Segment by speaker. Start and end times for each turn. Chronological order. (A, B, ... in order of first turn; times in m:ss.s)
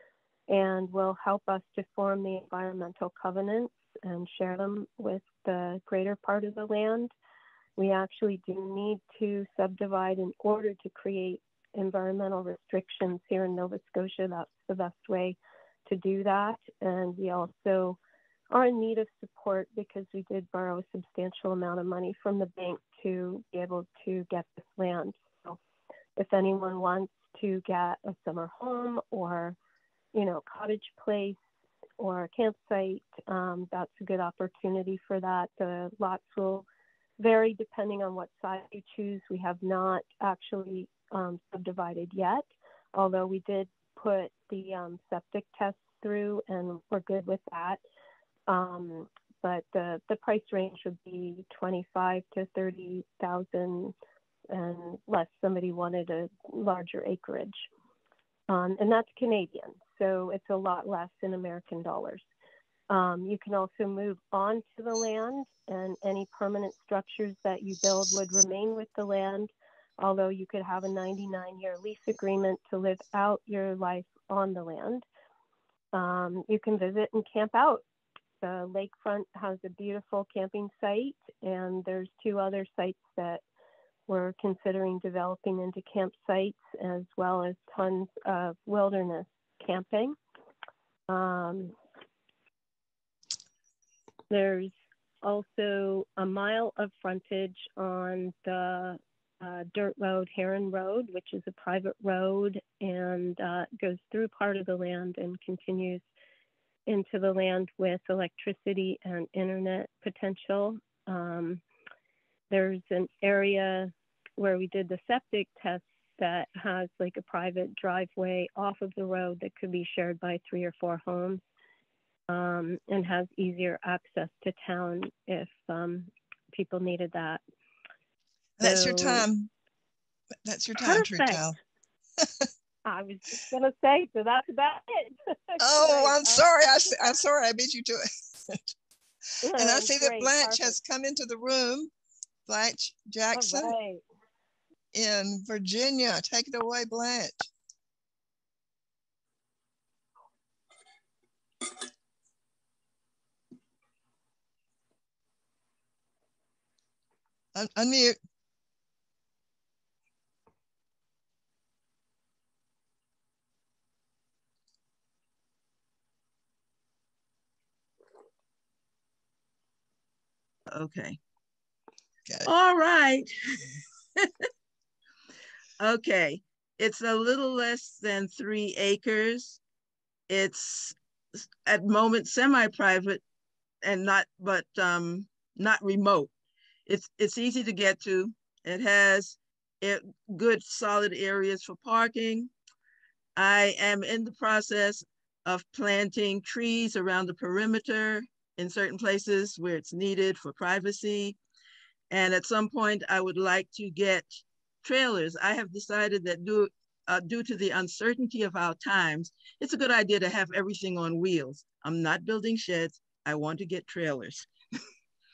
0:00.5-0:07.1 A
0:07.8-0:18.0 A
0:18.5-0:25.6 A
0:26.2-0:29.6 A
0:30.1-0:31.4 A
0:32.0-0:36.7 A
0:37.2-0:47.8 A
0:48.5-0:53.9 A
0:54.5-0:57.7 A
0:58.5-1:02.2 A
1:02.9-1:15.0 A
1:15.9-1:17.8 A
1:18.4-1:23.4 A
1:24.1-1:30.2 A
1:31.1-1:31.8 A
1:34.3-1:46.0 A
1:46.9-1:51.6 A
1:52.5-2:01.4 A
2:02.3-2:07.4 A
2:08.6-2:09.5 B
2:08.6-2:09.3 A
2:10.4-2:11.6 B
2:10.8-2:11.5 A
2:12.2-2:12.5 B
2:12.8-2:16.4 A
2:15.6-2:18.7 B
2:19.4-2:20.8 A
2:19.5-2:21.9 B
2:22.5-2:23.8 B
2:23.3-2:24.0 A
2:24.9-2:27.5 B
2:37.6-2:38.2 B
2:50.7-2:51.2 C
2:52.5-2:53.3 C
2:55.8-2:59.6 C
3:00.3-3:03.2 C
3:03.8-3:06.3 C
3:06.9-3:12.5 C
3:13.4-3:21.4 C
3:22.1-3:24.3 C
3:24.8-3:34.5 C